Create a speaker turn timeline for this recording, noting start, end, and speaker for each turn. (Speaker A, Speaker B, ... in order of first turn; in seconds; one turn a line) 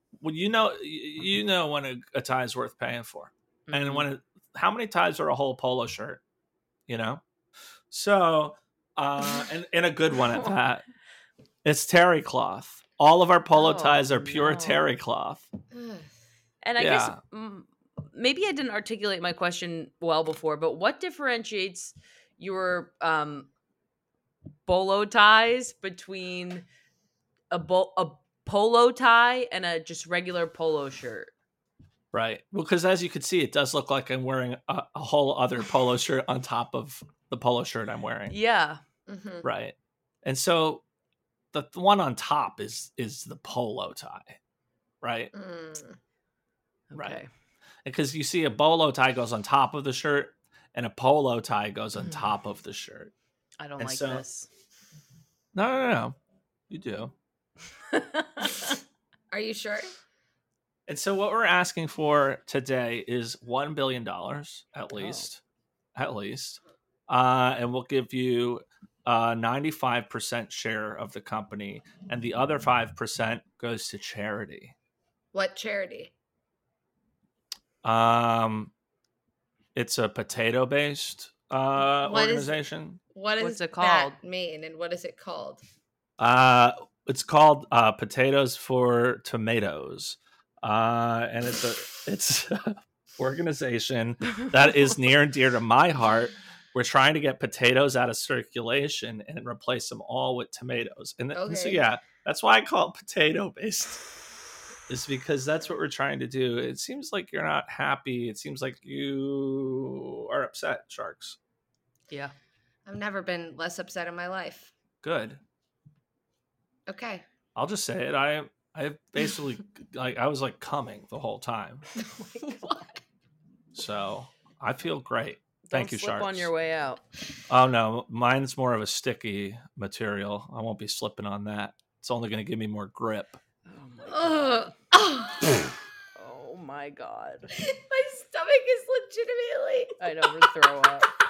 Speaker A: 0.2-6.2
Speaker B: 3.7-4.1
Speaker A: 6.9-7.2
Speaker A: 7.9-10.8
Speaker A: 11.6-15.5
Speaker B: 13.6-14.8
Speaker C: 15.7-16.1
Speaker B: 16.6-23.5
Speaker A: 16.8-17.2
Speaker B: 24.7-26.6
Speaker B: 27.5-31.3
Speaker A: 32.1-38.4
Speaker B: 38.3-38.8
Speaker C: 39.1-39.5
Speaker A: 39.4-40.8
Speaker A: 41.5-44.4
Speaker A: 45.0-45.3
Speaker C: 45.3-46.0
Speaker B: 46.9-47.3
Speaker A: 46.9-47.2
Speaker A: 47.9-53.1
Speaker B: 53.6-54.5
Speaker A: 53.8-54.2
Speaker A: 55.5-56.2
Speaker A: 56.7-57.1
Speaker B: 57.9-58.8
Speaker C: 59.3-59.9
Speaker A: 60.9-65.4
Speaker B: 65.0-65.3
Speaker A: 66.0-74.8
Speaker C: 75.3-76.1
Speaker A: 77.8-78.7
Speaker A: 79.8-83.0
Speaker C: 82.0-82.5
Speaker C: 83.1-85.6
Speaker B: 83.4-84.2
Speaker A: 86.2-104.0
Speaker C: 101.3-101.8
Speaker A: 104.9-111.4
Speaker C: 112.9-114.7
Speaker A: 115.0-115.4
Speaker C: 116.9-117.2
Speaker A: 117.5-121.9
Speaker B: 122.1-123.0
Speaker A: 123.7-126.5
Speaker B: 125.7-127.0
Speaker A: 127.5-133.4
Speaker B: 133.7-134.7
Speaker C: 134.1-135.6
Speaker B: 136.2-137.5
Speaker C: 137.5-140.0
Speaker B: 140.0-141.1